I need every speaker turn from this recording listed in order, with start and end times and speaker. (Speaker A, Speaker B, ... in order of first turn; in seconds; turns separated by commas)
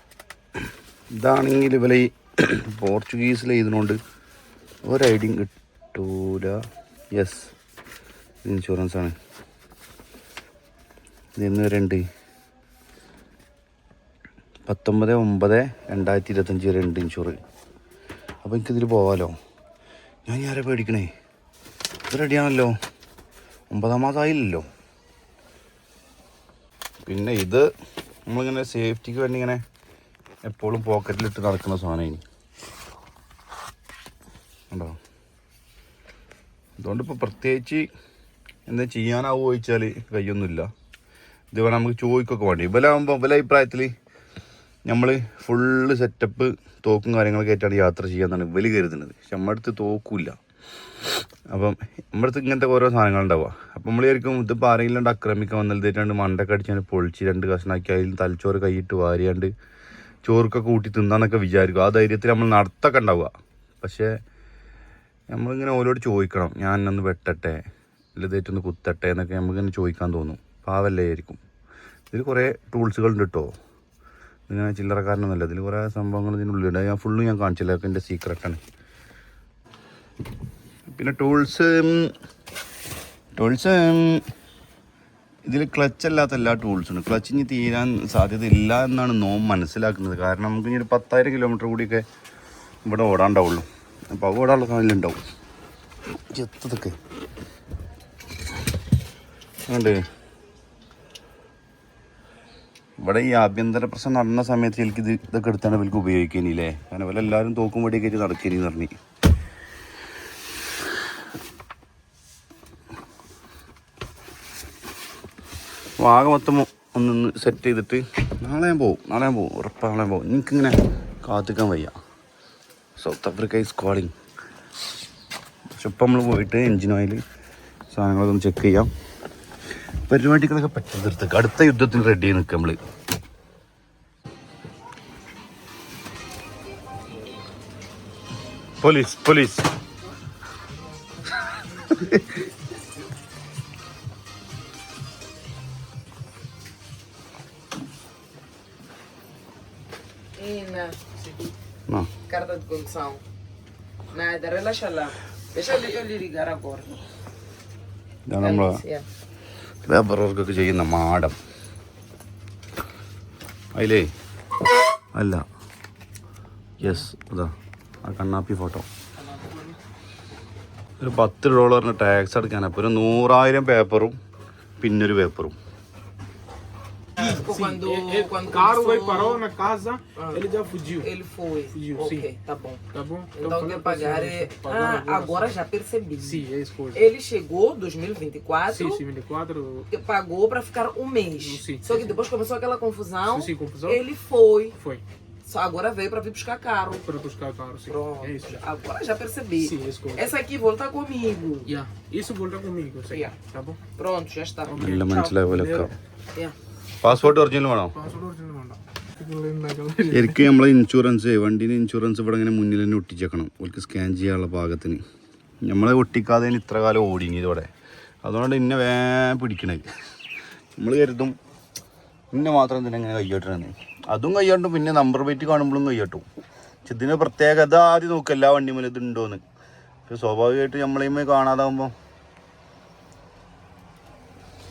Speaker A: 1.2-4.0, Speaker A: 4.9-6.6, Speaker A: 7.1-7.5, Speaker A: 8.4-9.2, Speaker A: 11.4-12.1, Speaker A: 14.7-17.4, Speaker A: 18.4-19.4, Speaker A: 20.3-21.1, Speaker A: 22.1-22.7, Speaker A: 23.7-24.7, Speaker A: 27.1-27.7, Speaker A: 28.3-29.6, Speaker A: 30.4-32.2, Speaker A: 34.7-35.0, Speaker A: 36.8-37.9, Speaker A: 38.7-40.7, Speaker A: 41.5-43.9, Speaker A: 44.9-50.4, Speaker A: 51.5-59.5, Speaker A: 60.2-64.2, Speaker A: 65.3-67.6, Speaker A: 68.2-71.4, Speaker A: 72.1-73.5, Speaker A: 74.5-78.6, Speaker A: 81.0-82.1, Speaker A: 83.4-84.2, Speaker A: 85.5-92.0, Speaker A: 92.9-95.2, Speaker A: 96.3-97.0, Speaker A: 99.7-100.0, Speaker A: 103.0-108.9, Speaker A: 116.0-122.0, Speaker A: 123.0-124.1, Speaker A: 125.7-127.2, Speaker A: 127.9-128.9, Speaker A: 130.1-132.8, Speaker A: 138.8-139.7, Speaker A: 141.9-142.2, Speaker B: 150.4-151.0, Speaker B: 152.3-153.2, Speaker B: 154.1-157.0, Speaker A: 158.3-158.8, Speaker B: 158.4-159.1, Speaker A: 159.8-161.4, Speaker A: 163.8-164.1, Speaker A: 165.1-165.4, Speaker A: 166.8-167.5, Speaker A: 168.0-168.9, Speaker C: 169.2-169.8, Speaker A: 171.0-174.2, Speaker A: 174.8-175.6, Speaker B: 177.2-179.4, Speaker C: 177.2-181.1, Speaker B: 180.2-180.4, Speaker B: 181.0-182.8, Speaker C: 181.7-182.3, Speaker C: 182.9-185.6, Speaker B: 183.3-189.0, Speaker C: 186.2-187.0, Speaker C: 188.7-189.9, Speaker B: 189.9-194.7, Speaker C: 191.4-192.2, Speaker C: 193.3-194.0, Speaker C: 194.8-195.0, Speaker B: 195.5-197.1, Speaker C: 197.0-198.6, Speaker B: 197.8-201.8, Speaker C: 199.6-200.3, Speaker C: 201.7-203.8, Speaker B: 203.1-203.4, Speaker B: 204.0-205.3, Speaker C: 204.7-205.9, Speaker A: 204.8-205.9, Speaker A: 207.0-207.9, Speaker C: 207.1-210.5, Speaker A: 210.1-215.0, Speaker A: 215.6-217.7, Speaker A: 218.2-219.9, Speaker A: 220.8-221.3, Speaker A: 222.3-226.2, Speaker A: 226.9-229.4, Speaker A: 230.1-231.9